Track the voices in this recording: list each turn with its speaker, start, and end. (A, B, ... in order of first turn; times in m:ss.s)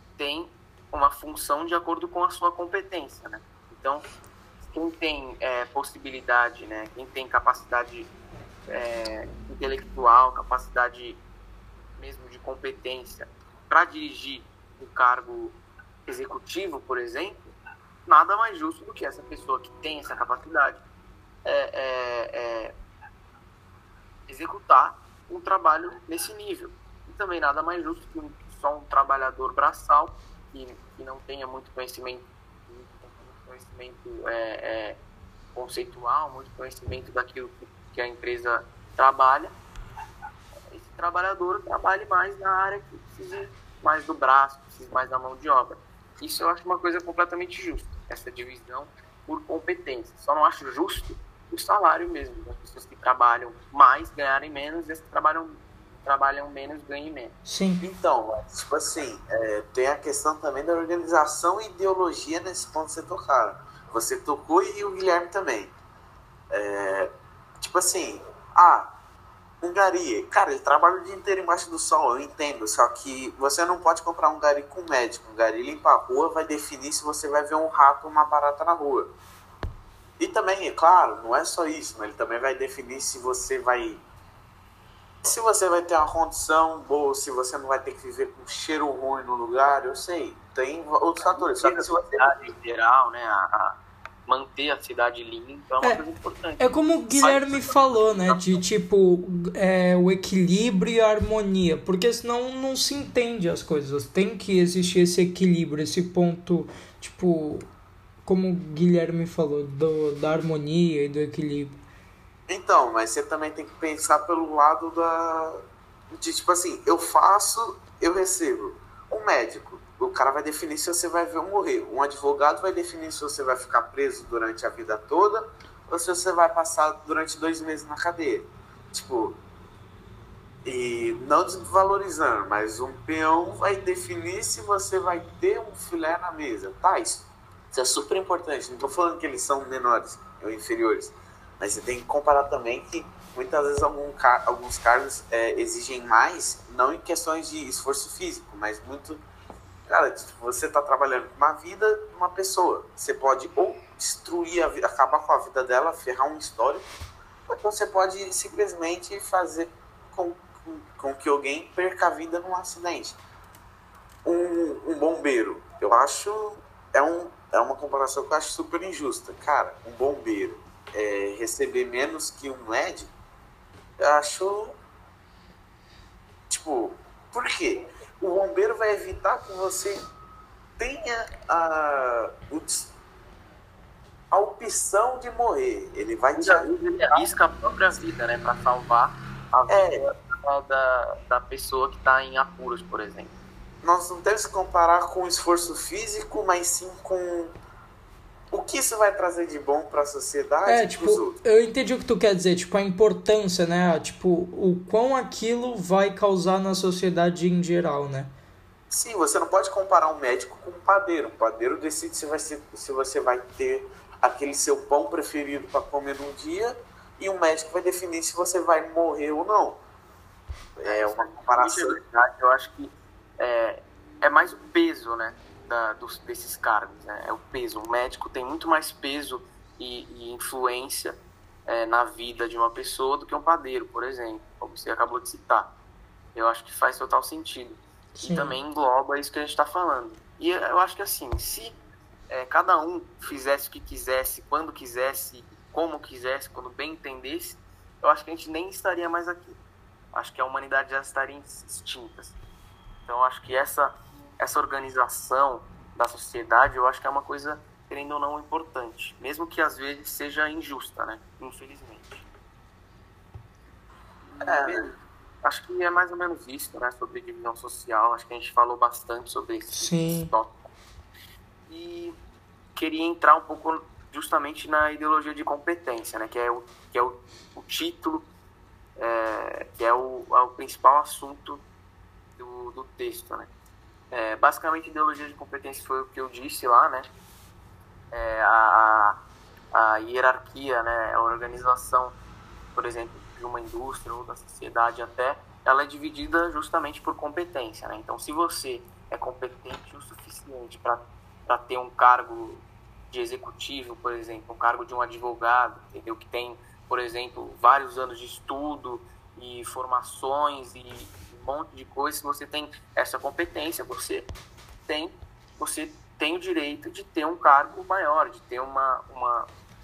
0:00.2-0:04.0 A
0:04.6-0:08.1 A
0:08.7-0:11.2 A
0:12.0-0:17.6 A
0:18.1-0:20.8 A
0:21.4-0:22.8 A
0:24.3-0:35.0 A
0:35.6-0:39.5 A
0:40.7-0:57.4 A
0:57.4-0:57.8 B
0:57.8-1:05.7 C
1:06.5-1:09.0 C
1:09.6-1:19.1 C
1:20.2-1:24.0 C
1:25.2-1:32.3 C
1:31.2-1:38.6 A
1:36.6-1:47.6 B
1:48.2-1:51.8 B
1:52.5-1:55.6 C
1:56.1-2:09.4 C
2:10.6-2:29.2 C
2:29.9-2:36.9 C
2:37.5-2:43.2 C
2:44.2-2:53.1 C
2:54.0-2:54.8 C
2:56.5-3:00.0 C
3:00.8-3:02.9 C
3:04.3-3:07.2 C
3:06.4-3:13.3 A
3:09.7-3:10.0 C
3:13.8-3:17.5 C
3:18.5-3:21.4 C
3:20.7-3:28.3 B
3:28.9-3:39.8 C
3:40.8-3:42.0 C
3:40.8-3:55.7 A
3:56.4-4:01.8 A
3:58.2-3:58.6 B
4:02.3-4:09.6 A
4:10.1-4:12.4 A
4:13.1-4:22.3 A
4:24.3-4:30.7 A
4:24.4-4:24.8 C
4:29.7-4:30.3 B
4:31.7-4:32.2 A
4:32.8-4:38.3 A
4:39.0-4:41.6 A
4:42.4-4:43.5 A
4:44.1-4:47.1 A
4:48.1-4:49.2 A
4:49.7-4:52.2 A
4:52.8-5:14.3 A
5:14.9-5:19.5 A